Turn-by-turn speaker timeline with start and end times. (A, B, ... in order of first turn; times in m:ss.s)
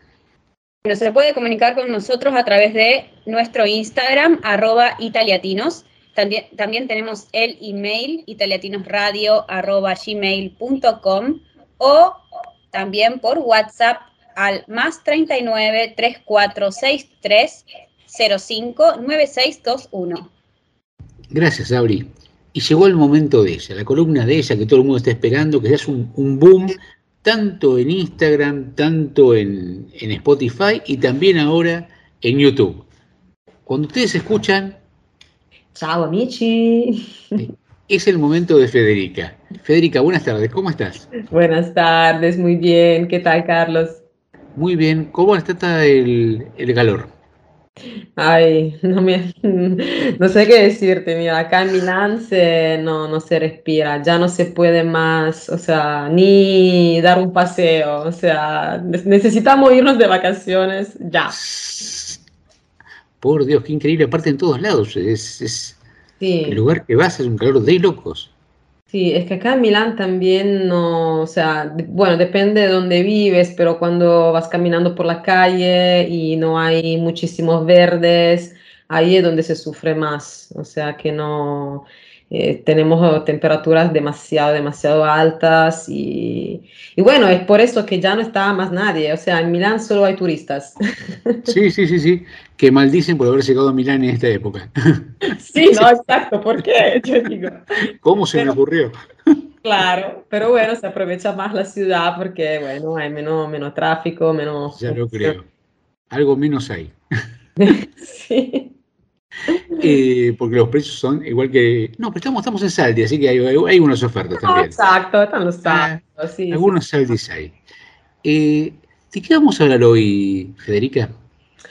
0:00.8-0:20.3 A
0:21.3-0:32.8 B
0:33.7-0:34.8 B
0:35.7-0:37.4 C
0:37.4-0:41.0 B
0:41.3-0:44.0 C
0:44.6-0:47.1 B
0:48.2-1:01.3 C
1:01.4-1:02.2 B
1:03.2-1:05.8 B
1:06.2-1:06.6 C
1:06.4-1:08.3 B
1:08.9-1:31.5 C
1:31.5-1:35.9 B
1:35.4-1:37.6 C
1:38.0-1:38.9 B
1:39.6-1:45.4 C
1:44.8-1:45.4 B
1:46.1-1:46.9 B
1:47.6-1:48.7 C
1:49.8-1:54.7 B
1:54.4-1:56.7 C
1:55.6-1:57.6 B
1:58.2-2:01.1 B